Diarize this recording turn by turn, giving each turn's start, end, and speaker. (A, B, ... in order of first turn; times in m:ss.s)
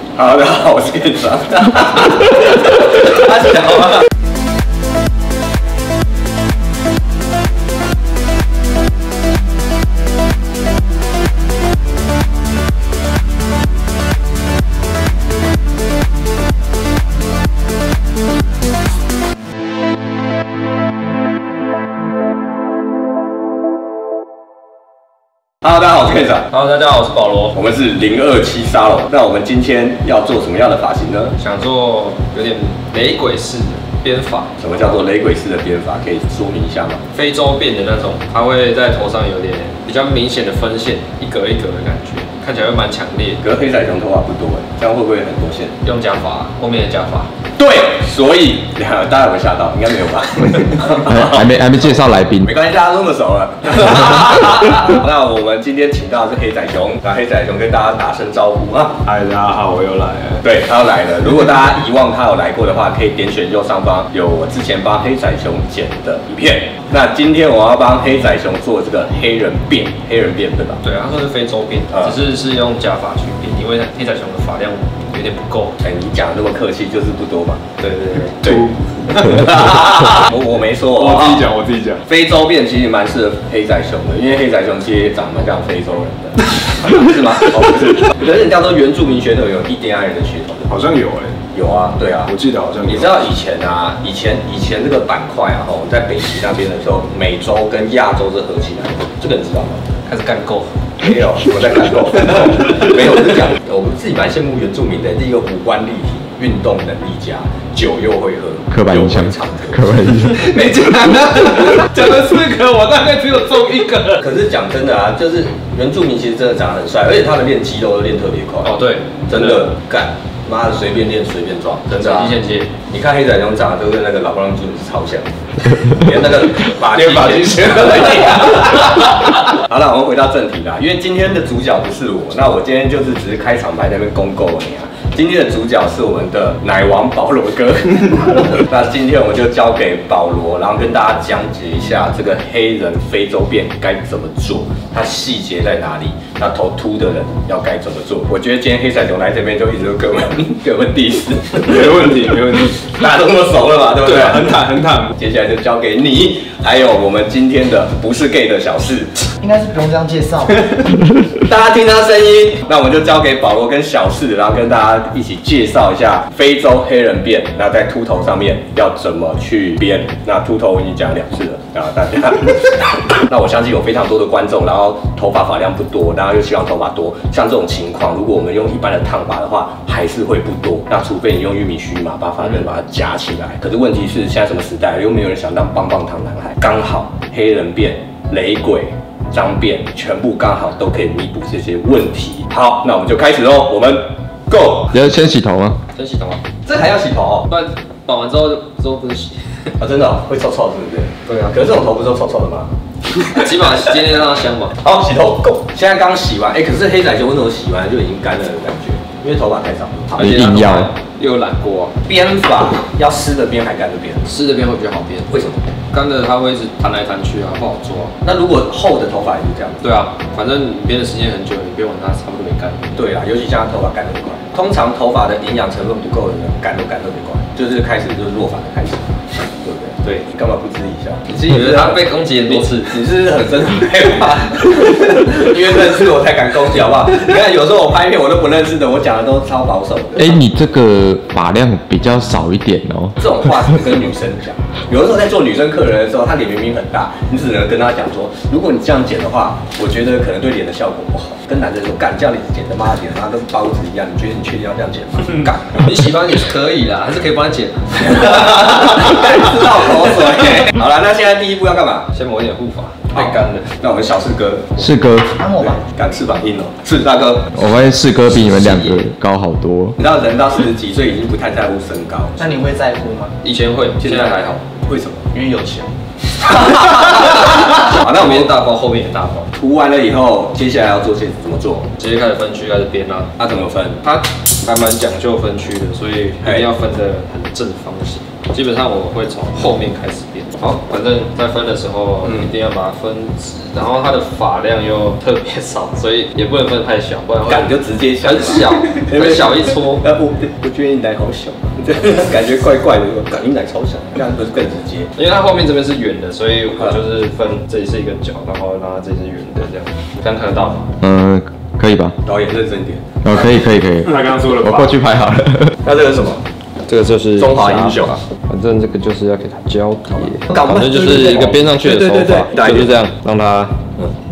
0:00.2-0:04.1 A
0:25.6-0:26.5 A
0:26.5-0:27.6 B
0:27.5-0:31.4 A
0:31.4-0:34.8 B
0:34.6-0:37.0 A
0:37.1-0:43.4 B
0:43.4-0:45.8 A
0:45.8-0:47.3 B
0:47.6-0:59.0 A
0:51.1-0:52.5 C
0:59.1-1:00.4 D
1:00.4-1:10.8 A
1:10.8-1:15.8 B
1:15.8-1:17.8 A
1:17.8-1:18.4 B
1:18.4-1:30.7 A
1:21.0-1:22.0 D
1:30.7-1:31.4 D
1:31.5-1:39.8 A
1:32.3-1:33.1 D
1:40.1-1:40.8 B
1:41.0-1:50.0 A
1:48.7-1:50.6 C
1:50.3-1:54.2 B
1:54.2-1:58.8 A
1:58.6-1:59.7 B
1:59.3-2:39.3 A
2:01.9-2:02.7 B
2:06.9-2:08.6 D
2:31.7-2:32.8 D
2:34.1-2:34.9 D
2:39.4-2:40.5 E
2:40.4-3:14.9 A
3:14.9-3:15.8 C
3:16.0-3:16.4 B
3:16.6-3:17.5 A
3:17.5-3:19.7 B
3:19.8-3:22.7 A
3:21.3-3:21.6 B
3:23.3-3:24.8 B
3:24.8-3:30.7 A
3:30.2-3:30.9 C
3:30.2-3:32.0 B
3:32.0-3:34.3 A
3:34.2-3:35.3 B
3:35.3-3:35.6 A
3:35.9-3:38.2 B
3:38.2-3:39.8 A
3:39.8-3:43.0 B
3:43.0-4:00.4 A
3:51.4-3:53.0 B
4:00.2-4:03.6 C
4:03.2-4:15.9 A
4:15.7-4:18.4 B
4:18.0-4:22.1 A
4:22.1-4:23.6 B
4:23.1-4:24.9 A
4:24.8-4:25.4 C
4:25.3-4:25.8 E
4:25.6-4:27.6 A
4:27.6-4:30.0 C
4:30.0-4:32.6 A
4:32.4-4:33.4 E
4:33.4-4:34.6 B
4:34.0-4:35.4 A
4:35.3-4:35.9 E
4:36.4-4:38.5 A
4:36.9-4:39.5 B
4:39.5-4:41.9 A
4:42.0-4:43.3 B
4:43.4-4:44.0 A
4:44.0-5:00.0 B
4:46.4-4:46.7 A
4:52.2-4:52.5 A
4:57.5-5:05.1 A
5:05.2-5:10.9 B
5:11.0-5:12.2 C
5:12.2-5:13.2 A
5:13.2-5:15.7 C
5:14.0-5:14.9 D
5:15.8-5:16.4 A
5:16.9-5:23.8 B
5:17.4-5:18.2 A
5:20.1-5:23.0 A